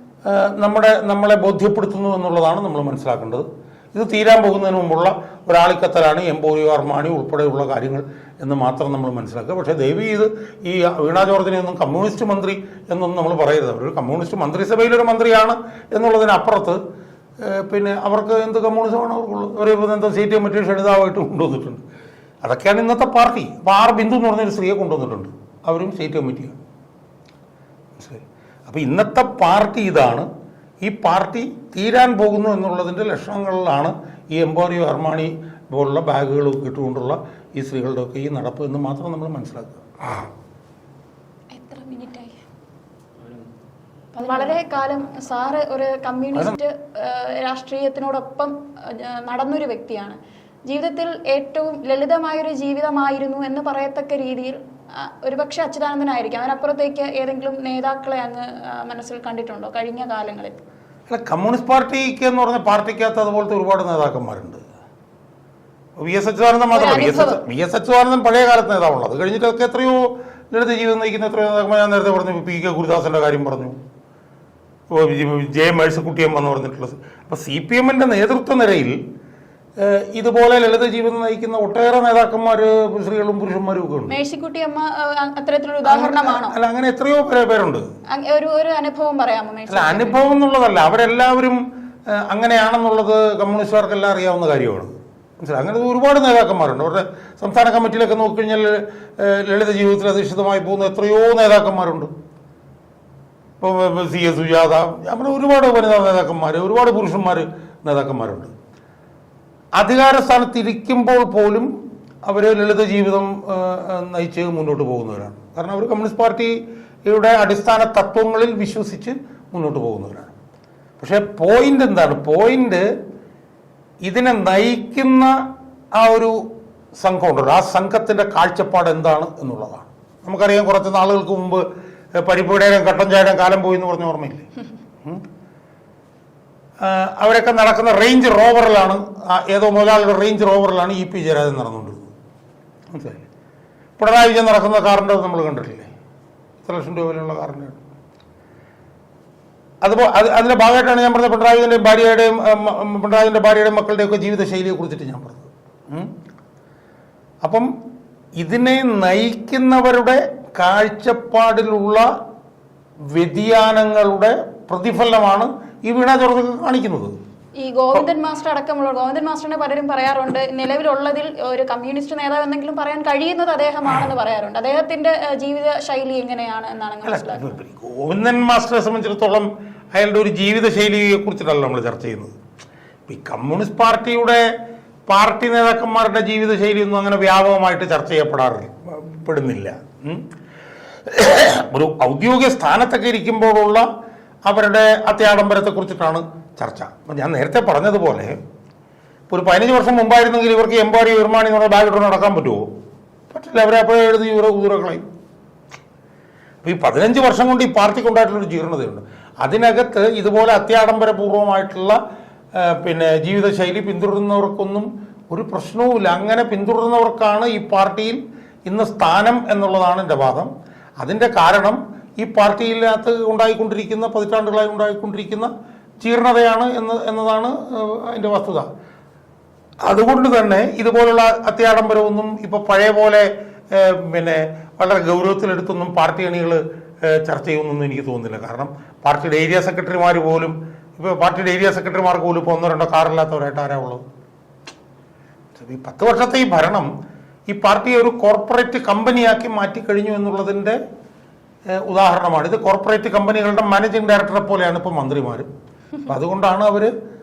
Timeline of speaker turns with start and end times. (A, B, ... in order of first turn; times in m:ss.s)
0:00.2-0:16.8 A
0:17.4-0:21.8 A
0:22.4-0:26.6 A
0:28.0-0:30.3 A
0:30.8-0:40.2 A
0:41.5-0:42.4 B
0:44.2-1:00.6 B
1:01.1-1:04.6 A
1:06.0-1:13.8 A
1:06.7-1:07.4 B
1:14.9-1:19.0 A
1:19.8-1:24.2 A
1:24.1-1:26.5 B
1:25.8-1:27.8 A
1:28.1-1:30.3 B
1:29.7-1:42.1 A
1:43.6-1:48.5 A
1:49.8-1:51.7 A
1:52.2-2:00.3 A
2:01.0-2:02.9 A
2:04.0-2:05.4 A
2:06.0-2:06.4 A
2:07.0-2:11.6 A
2:12.2-2:14.5 A
2:16.8-2:22.1 A
2:22.9-2:23.2 A
2:24.0-2:25.9 A
2:26.6-2:27.8 A
2:29.8-2:36.1 A
2:37.4-2:37.7 A
2:38.4-2:42.1 A
2:43.1-2:47.1 A
2:47.6-2:57.5 B
2:57.0-3:02.3 A
3:03.1-3:04.5 A
3:05.1-3:10.2 A
3:11.0-3:13.9 A
3:14.4-3:18.4 A
3:19.3-3:22.6 A
3:23.3-3:25.0 A
3:26.6-3:32.0 A
3:32.6-3:45.5 A
3:46.0-3:48.7 A
3:49.8-4:04.0 A
4:05.6-4:06.9 A
4:07.5-4:10.8 A
4:11.8-4:15.5 A
4:16.0-4:16.9 A